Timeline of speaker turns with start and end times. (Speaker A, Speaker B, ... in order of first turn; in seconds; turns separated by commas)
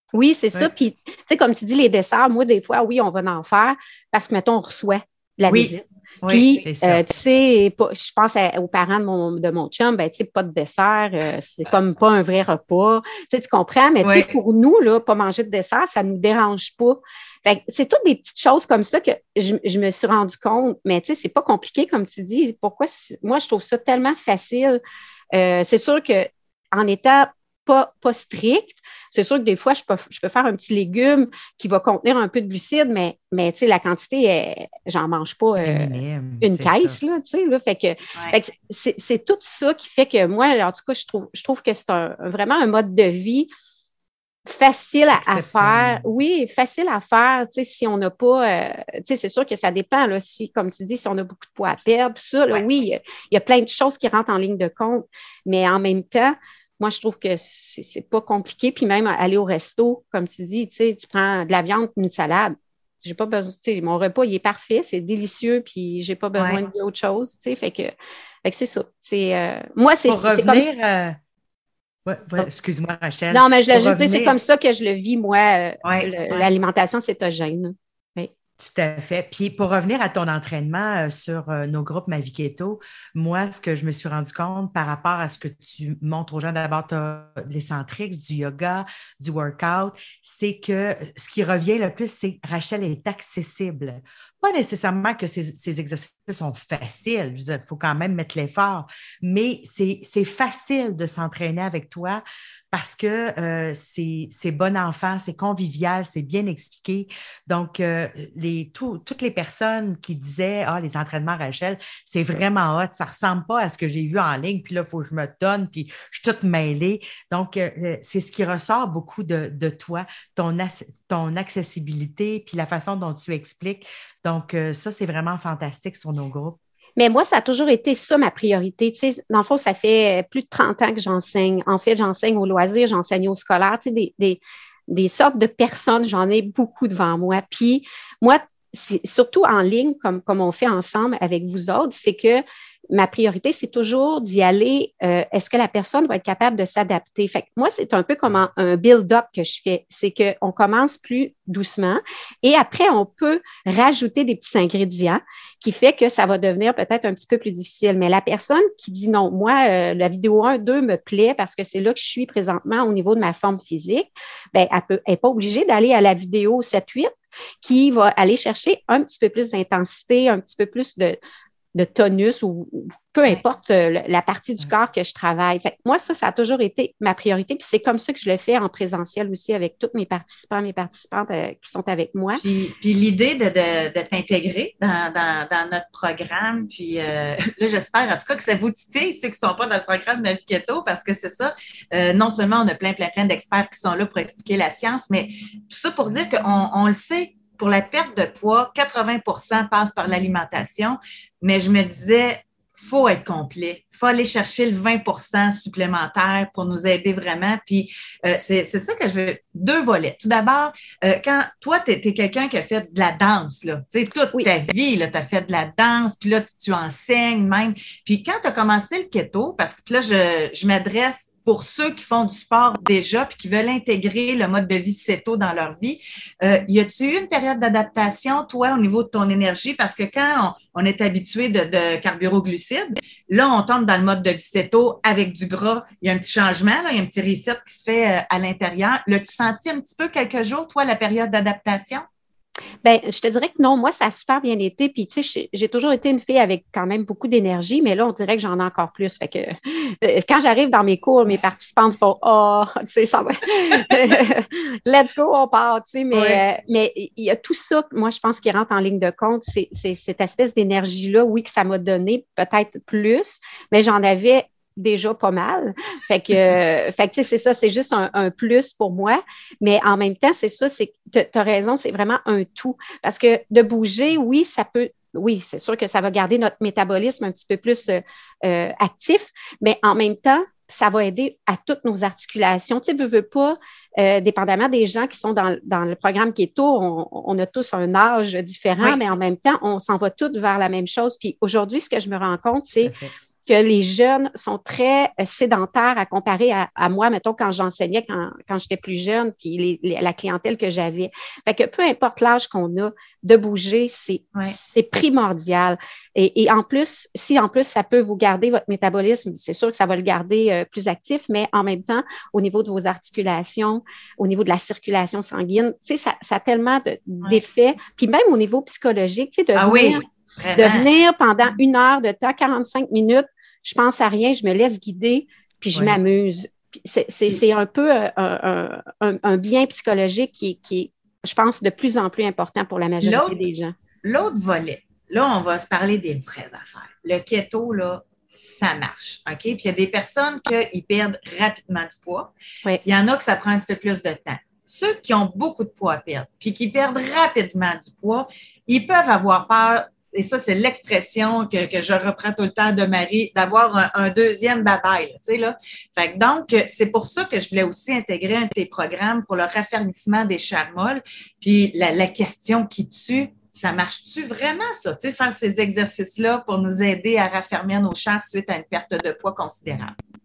Speaker A: 0.1-24.8, Speaker B: 6.6-7.0, Speaker C: 14.0-14.3, Speaker A: 25.3-43.5, Speaker B: 35.6-37.0, Speaker A: 44.5-67.9, Speaker B: 45.2-46.0, Speaker A: 68.5-70.7, Speaker B: 70.1-71.2, Speaker B: 72.1-74.4, Speaker A: 73.3-78.3, Speaker C: 75.8-76.5, Speaker B: 78.6-126.6, Speaker A: 127.0-167.1, Speaker A: 167.6-171.2, Speaker A: 171.8-182.4, Speaker C: 182.4-242.1, Speaker A: 242.8-292.9, Speaker C: 256.1-256.4, Speaker B: 292.8-293.1, Speaker A: 293.5-320.0, Speaker C: 319.6-320.9, Speaker A: 320.6-333.7, Speaker C: 333.0-333.4, Speaker C: 334.0-342.3, Speaker C: 342.9-369.9